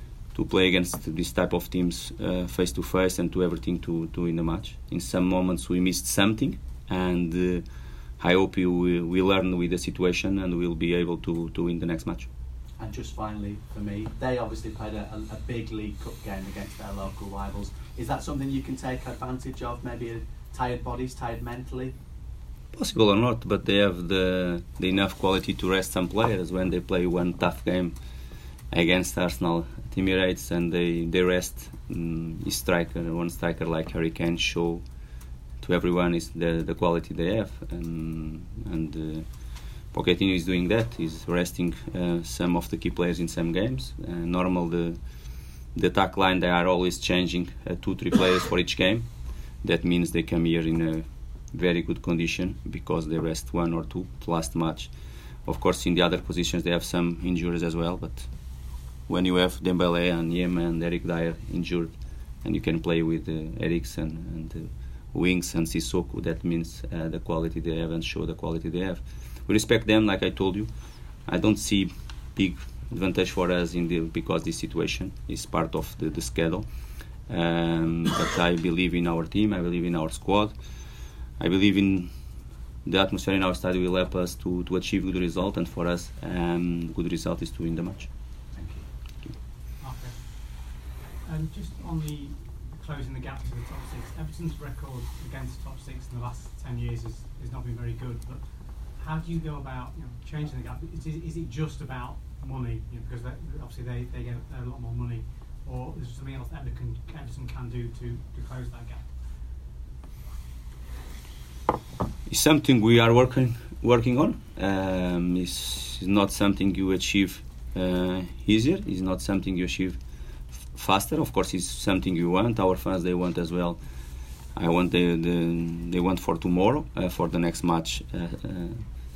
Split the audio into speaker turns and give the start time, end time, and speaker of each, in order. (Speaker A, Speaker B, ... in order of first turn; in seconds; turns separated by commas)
Speaker A: 0.3-7.7, Speaker A: 8.2-12.3, Speaker B: 12.8-21.9, Speaker A: 22.7-28.0, Speaker A: 28.7-34.8, Speaker A: 35.6-39.3, Speaker A: 39.9-45.0, Speaker A: 45.7-49.1, Speaker A: 49.6-54.9, Speaker A: 55.5-58.3, Speaker A: 59.1-70.7, Speaker A: 71.3-76.7, Speaker A: 77.3-80.5, Speaker A: 81.4-82.1, Speaker A: 82.8-88.1, Speaker B: 88.5-89.2, Speaker C: 89.8-109.2, Speaker A: 112.3-120.0, Speaker A: 120.7-123.8, Speaker A: 124.5-128.9